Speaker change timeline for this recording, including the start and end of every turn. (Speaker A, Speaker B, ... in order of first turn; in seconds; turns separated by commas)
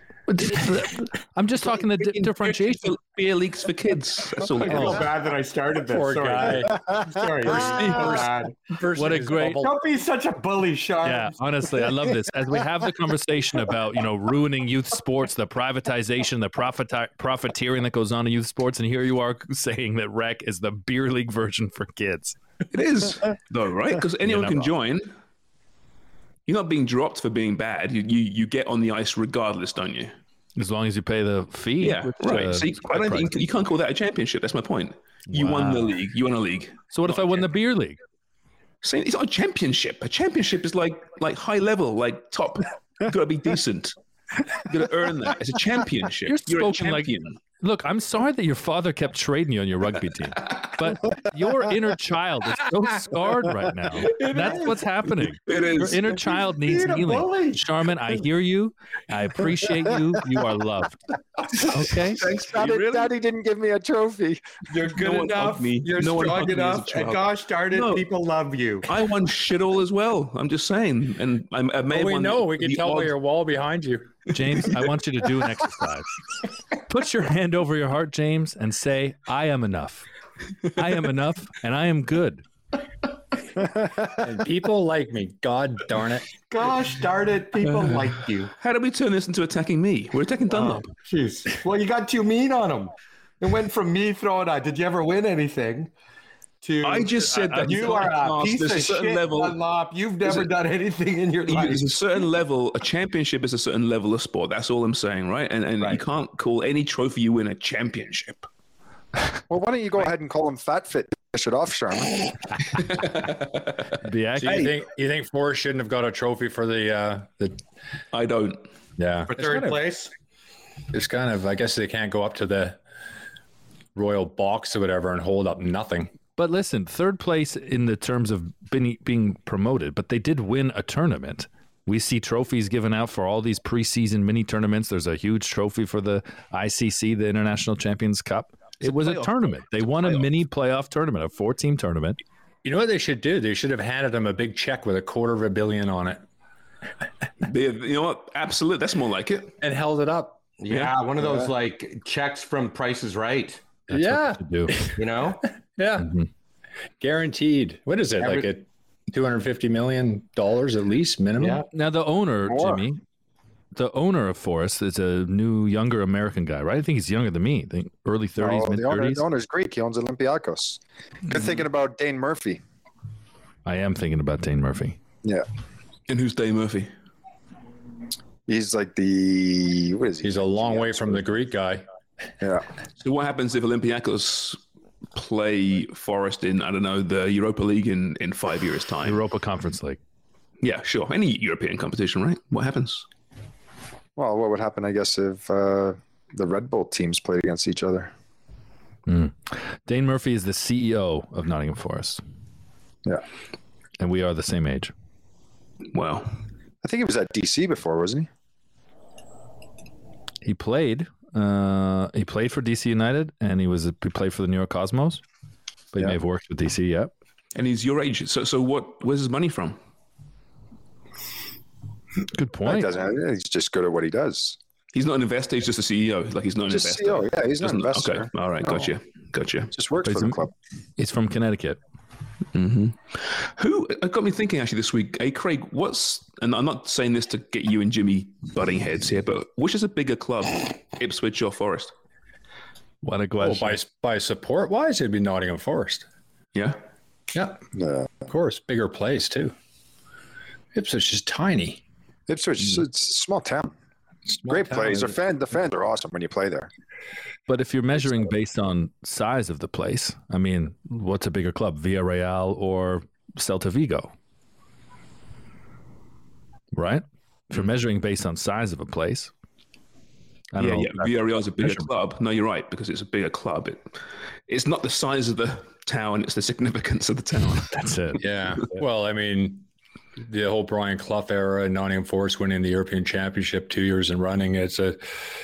Speaker A: 0.3-2.9, Speaker B: 1.8-5.1, Speaker C: 4.6-8.5, Speaker D: 5.9-6.8, Speaker D: 7.4-9.7, Speaker A: 8.9-9.6, Speaker C: 9.6-11.3, Speaker A: 11.0-22.4, Speaker B: 22.7-25.1, Speaker A: 24.2-24.7, Speaker B: 26.5-30.1, Speaker A: 30.6-33.3, Speaker B: 31.8-37.4, Speaker A: 35.3-36.0, Speaker A: 36.9-38.0, Speaker B: 38.8-44.0, Speaker B: 44.5-47.4, Speaker A: 46.2-61.0, Speaker C: 54.2-54.6, Speaker B: 55.5-56.1, Speaker C: 56.6-57.6, Speaker A: 61.7-62.2, Speaker B: 62.2-63.1, Speaker E: 62.2-64.6, Speaker C: 64.7-68.9, Speaker B: 64.9-68.0, Speaker B: 68.8-73.1, Speaker D: 71.9-74.1, Speaker A: 74.3-76.1, Speaker A: 76.9-80.1, Speaker A: 80.8-82.4, Speaker D: 84.2-86.3, Speaker C: 86.5-88.5, Speaker B: 87.6-90.9, Speaker C: 90.5-95.9, Speaker C: 96.6-101.9, Speaker B: 96.8-99.6, Speaker B: 100.2-100.5, Speaker B: 101.5-108.5, Speaker E: 109.5-112.3, Speaker B: 113.0-113.4, Speaker A: 114.0-114.7, Speaker D: 114.4-117.6, Speaker B: 118.1-118.7, Speaker D: 119.0-119.8, Speaker C: 119.3-120.1, Speaker D: 120.9-122.8, Speaker D: 123.9-126.1, Speaker A: 126.4-142.2, Speaker B: 138.8-140.3, Speaker D: 142.6-146.2, Speaker B: 147.4-149.5, Speaker D: 149.6-150.4, Speaker C: 150.6-153.6, Speaker B: 150.7-151.0, Speaker A: 153.9-154.9, Speaker D: 153.9-154.9, Speaker C: 155.0-155.4, Speaker D: 155.8-156.1, Speaker A: 156.0-156.3, Speaker D: 157.0-161.6, Speaker C: 158.2-158.5, Speaker C: 161.4-161.7, Speaker A: 161.7-163.0, Speaker E: 162.5-162.8, Speaker A: 163.7-169.2, Speaker E: 168.4-172.6, Speaker A: 173.6-175.0, Speaker B: 176.1-176.9, Speaker E: 178.5-181.2, Speaker D: 180.2-181.8, Speaker B: 183.0-184.6, Speaker B: 185.1-189.2, Speaker A: 189.0-190.0, Speaker B: 190.6-193.0, Speaker E: 194.2-198.1, Speaker A: 199.1-202.2, Speaker A: 204.0-204.9, Speaker B: 205.9-206.3, Speaker E: 206.8-208.3, Speaker A: 210.4-215.2, Speaker A: 215.9-217.1, Speaker B: 217.5-219.8, Speaker A: 222.3-222.9, Speaker E: 222.6-224.6, Speaker B: 224.9-229.7, Speaker E: 226.7-228.9, Speaker E: 229.7-230.5, Speaker A: 230.0-230.4, Speaker A: 231.0-231.8, Speaker B: 232.5-241.9, Speaker A: 243.0-243.8, Speaker D: 243.4-246.1, Speaker D: 247.3-247.6, Speaker E: 247.7-248.2, Speaker D: 248.2-249.5, Speaker D: 250.7-251.8, Speaker E: 252.3-253.7, Speaker D: 254.3-255.2, Speaker E: 254.4-256.7, Speaker A: 257.5-264.1, Speaker A: 266.7-269.3, Speaker A: 270.5-271.9, Speaker B: 270.6-273.9, Speaker B: 274.5-277.8, Speaker A: 277.7-278.8, Speaker D: 278.2-279.6, Speaker D: 280.2-285.0